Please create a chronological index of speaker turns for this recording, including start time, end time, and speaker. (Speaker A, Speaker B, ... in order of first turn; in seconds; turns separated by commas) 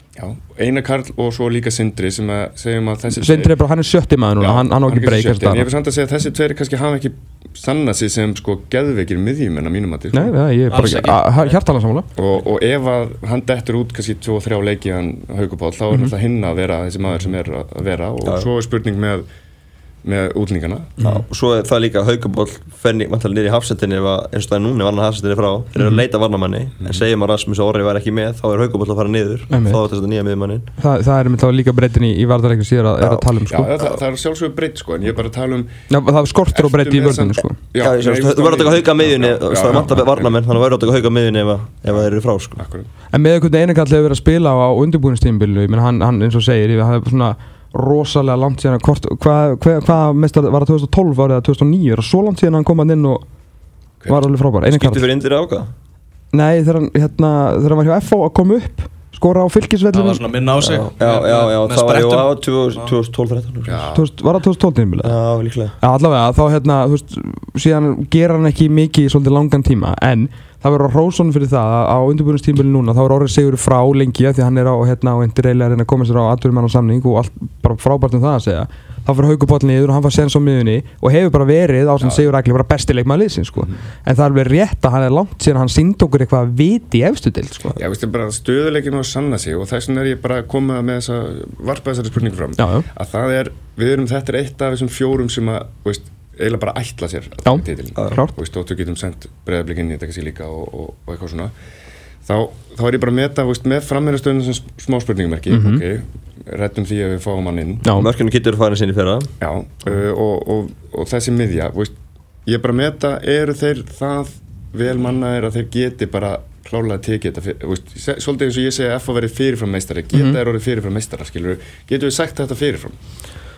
Speaker A: 0.1-3.5, Speaker B: 3.1-5.7, Speaker A: 4.4-10.4, Speaker B: 10.1-12.1, Speaker C: 10.7-11.1, Speaker D: 10.7-11.5, Speaker A: 12.1-19.2, Speaker A: 20.0-21.0, Speaker B: 21.0-21.2, Speaker C: 21.0-30.7, Speaker B: 25.8-26.0, Speaker A: 26.8-27.1, Speaker B: 29.5-29.8, Speaker B: 30.8-33.7, Speaker C: 33.0-33.3, Speaker A: 33.5-40.4, Speaker B: 35.9-37.6, Speaker C: 37.8-42.6, Speaker A: 41.9-42.9, Speaker B: 43.1-53.2, Speaker A: 54.0-54.2, Speaker B: 54.1-55.0, Speaker C: 54.6-55.7, Speaker B: 56.3-60.2, Speaker D: 59.9-62.9, Speaker C: 60.6-63.9, Speaker A: 63.6-64.1, Speaker B: 63.9-65.2, Speaker C: 65.0-65.7, Speaker B: 65.8-87.8, Speaker A: 82.0-82.3, Speaker A: 87.7-101.5, Speaker B: 92.6-92.8, Speaker B: 97.5-98.3, Speaker A: 102.2-107.9, Speaker B: 105.5-105.8, Speaker C: 107.9-109.3, Speaker A: 109.4-111.9, Speaker A: 112.4-123.0, Speaker B: 120.1-120.4